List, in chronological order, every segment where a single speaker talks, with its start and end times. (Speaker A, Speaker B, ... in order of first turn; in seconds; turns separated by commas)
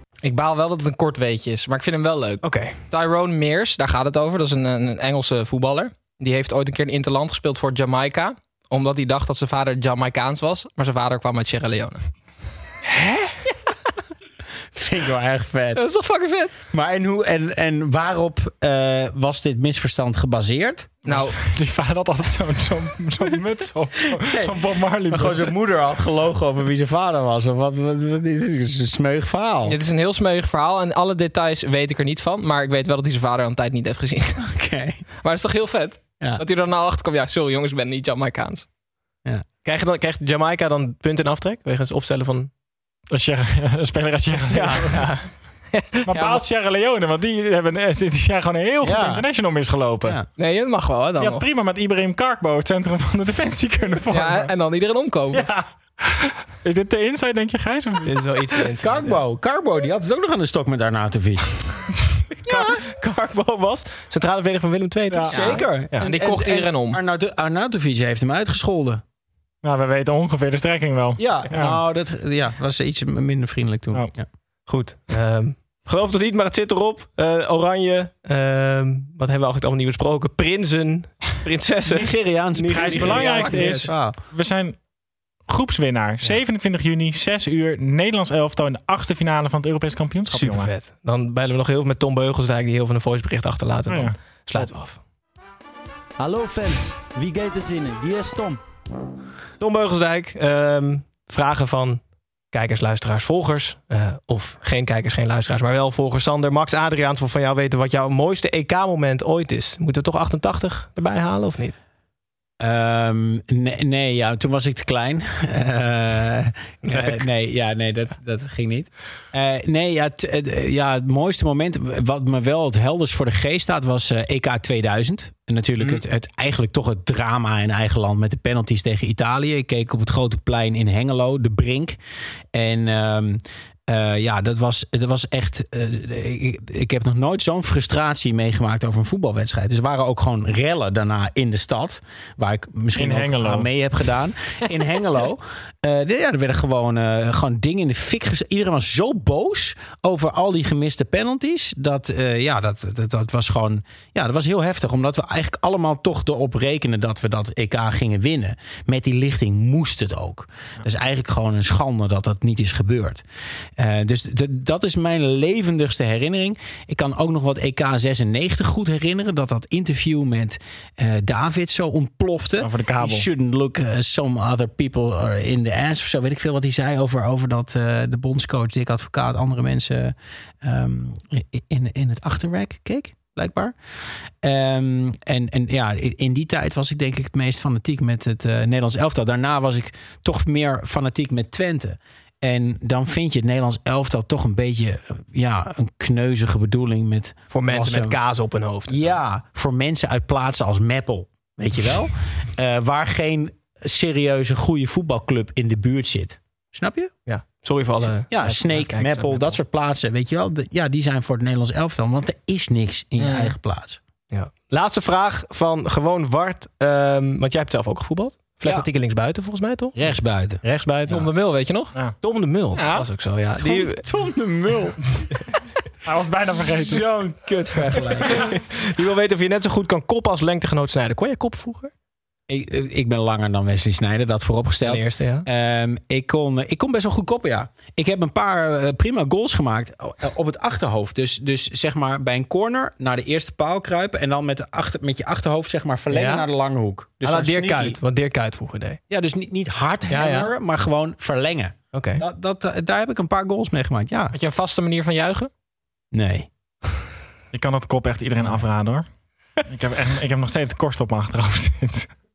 Speaker A: 0.2-12.0, Speaker B: 2.4-2.8, Speaker C: 14.7-15.8, Speaker A: 15.7-16.6, Speaker C: 16.7-21.1, Speaker A: 21.1-21.3, Speaker D: 21.1-25.5, Speaker C: 24.2-24.5, Speaker C: 25.1-29.8, Speaker A: 29.7-34.4, Speaker C: 34.4-35.0, Speaker A: 35.2-38.7, Speaker B: 39.6-42.5, Speaker D: 43.1-45.2, Speaker B: 44.5-45.3, Speaker A: 45.7-46.4, Speaker D: 46.1-50.2, Speaker C: 48.8-49.3, Speaker A: 50.4-51.5, Speaker D: 51.2-54.5, Speaker A: 54.1-55.5, Speaker D: 55.3-58.2, Speaker B: 58.0-59.2, Speaker C: 58.8-61.8, Speaker B: 62.5-66.1, Speaker C: 62.5-62.8, Speaker D: 65.1-65.8, Speaker C: 65.3-69.0, Speaker A: 65.3-67.0, Speaker D: 69.6-71.8, Speaker C: 71.2-74.3, Speaker B: 74.7-83.9, Speaker C: 81.9-84.2, Speaker D: 82.7-84.9, Speaker D: 85.4-90.7, Speaker B: 90.3-95.0, Speaker D: 93.9-94.7, Speaker E: 96.2-98.6, Speaker B: 99.6-111.8, Speaker C: 112.6-132.0, Speaker B: 116.8-117.2, Speaker C: 132.5-163.2, Speaker D: 143.0-143.7, Speaker C: 163.8-198.2, Speaker D: 172.6-173.2, Speaker B: 197.5-199.2, Speaker C: 198.9-207.1, Speaker B: 207.3-209.6, Speaker C: 208.3-214.0, Speaker A: 213.2-213.5, Speaker B: 214.3-221.2, Speaker C: 219.9-221.2, Speaker A: 221.1-221.9, Speaker B: 222.2-224.0, Speaker A: 222.8-223.0, Speaker C: 223.6-225.3, Speaker D: 226.1-227.1, Speaker C: 226.5-228.5, Speaker B: 228.4-231.9, Speaker C: 232.5-248.0, Speaker B: 234.8-235.5, Speaker B: 246.1-246.5, Speaker B: 247.2-249.0, Speaker C: 249.1-254.4, Speaker B: 250.1-250.5, Speaker B: 251.9-252.2, Speaker A: 254.3-255.5, Speaker C: 256.1-256.5, Speaker D: 257.5-262.2